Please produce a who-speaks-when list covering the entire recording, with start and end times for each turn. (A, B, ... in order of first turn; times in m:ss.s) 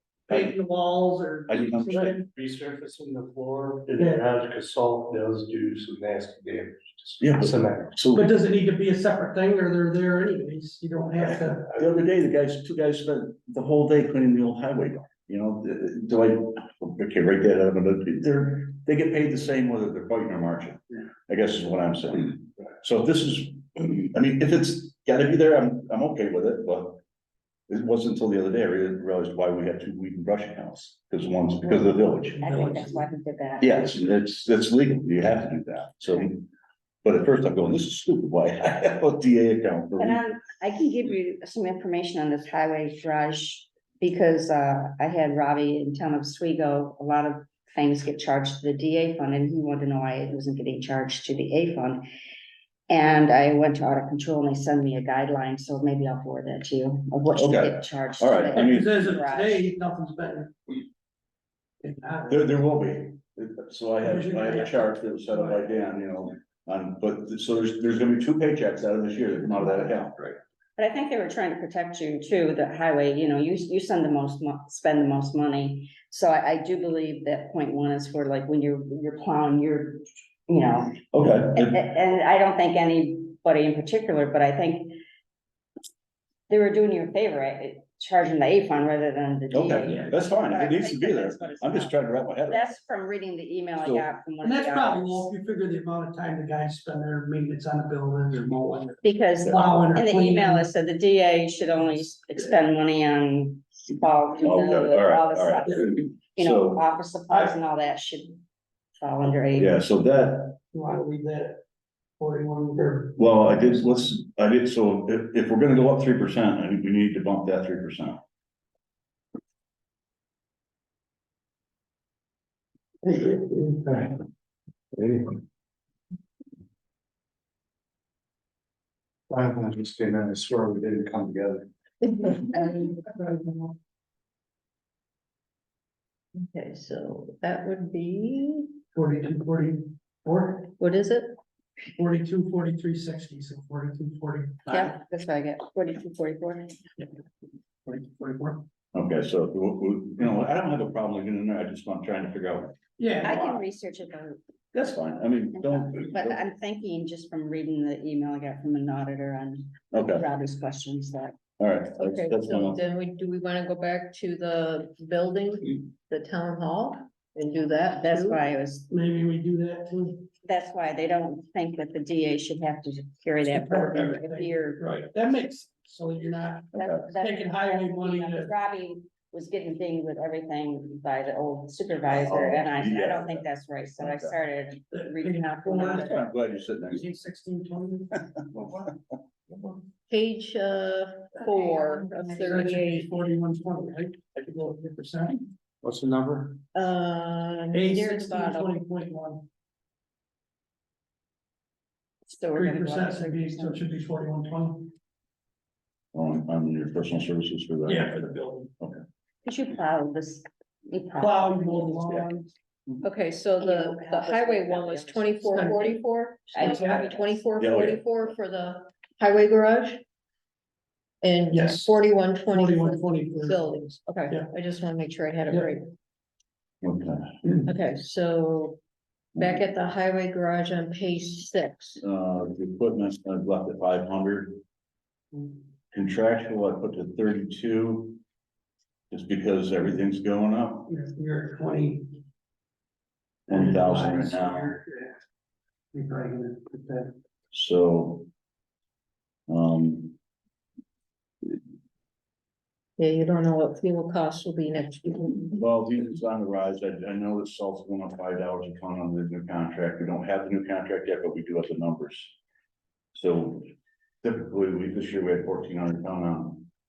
0:00.3-0:02.3 A
0:01.5-0:02.2 B
0:01.9-0:08.0 C
0:04.0-0:04.2 A
0:07.2-0:08.3 B
0:08.1-0:11.8 A
0:11.2-0:27.0 B
0:27.7-0:32.4 B
0:32.2-0:33.1 A
0:32.4-0:33.8 D
0:33.6-0:36.5 B
0:37.0-0:40.2 B
0:40.0-0:52.1 D
0:52.9-0:59.7 D
0:57.4-0:59.0 B
0:58.6-1:00.8 A
1:01.8-1:02.6 A
1:02.3-1:10.3 B
1:04.0-1:05.6 A
1:10.8-1:25.0 D
1:21.1-1:21.8 B
1:26.5-1:35.3 D
1:29.5-1:32.8 B
1:29.8-1:30.2 A
1:34.4-1:40.7 A
1:39.0-1:48.4 D
1:39.5-1:39.8 B
1:44.4-1:46.8 B
1:45.7-1:45.9 A
1:47.3-1:47.5 A
1:49.0-1:49.7 D
1:49.6-1:50.6 B
1:50.7-1:51.6 A
1:52.2-1:53.5 A
1:53.2-1:58.2 B
2:03.3-2:04.2 C
2:04.9-2:05.4 C
2:09.3-2:12.9 C
2:16.4-2:18.8 E
2:18.9-2:20.7 A
2:20.8-2:21.4 E
2:22.0-2:24.9 A
2:24.7-2:26.8 D
2:27.8-2:28.6 A
2:28.9-2:33.6 B
2:33.0-2:33.5 A
2:33.2-2:34.4 D
2:34.7-2:36.4 B
2:35.5-2:41.4 D
2:39.9-2:40.2 B
2:41.6-2:42.8 B
2:42.0-2:48.4 E
2:48.0-2:48.9 D
2:48.9-2:50.3 A
2:50.4-2:54.9 D
2:53.5-2:58.5 A
2:56.8-3:06.2 D
3:02.2-3:04.4 B
3:04.9-3:06.2 A
3:05.9-3:07.1 B
3:06.9-3:08.7 A
3:08.5-3:08.9 B
3:09.5-3:09.8 A
3:10.1-3:13.1 E
3:11.4-3:12.6 D
3:12.4-3:15.5 A
3:15.8-3:16.6 C
3:16.7-3:18.6 E
3:17.7-3:19.4 A
3:22.3-3:23.9 D
3:22.6-3:24.9 A
3:26.1-3:28.2 B
3:27.8-3:28.7 A
3:29.4-3:32.0 D
3:31.2-3:32.5 A
3:33.0-3:40.0 E
3:33.6-3:36.0 D
3:36.5-3:37.3 D
3:36.6-3:37.2 A
3:37.6-3:38.0 B
3:41.2-3:45.9 E
3:41.5-3:42.0 A
3:42.5-3:43.8 A
3:46.8-3:47.4 B
3:47.7-3:48.8 E
3:49.4-3:52.0 E
3:52.0-3:54.6 B
3:55.9-3:58.2 B
3:59.1-4:00.9 B
4:00.9-4:02.2 A
4:03.5-4:04.8 B
4:03.5-4:05.2 A
4:05.9-4:07.1 A
4:07.5-4:08.3 B
4:09.5-4:10.2 B
4:13.0-4:15.6 E
4:15.6-4:22.4 B
4:23.1-4:23.7 B
4:24.2-4:26.7 B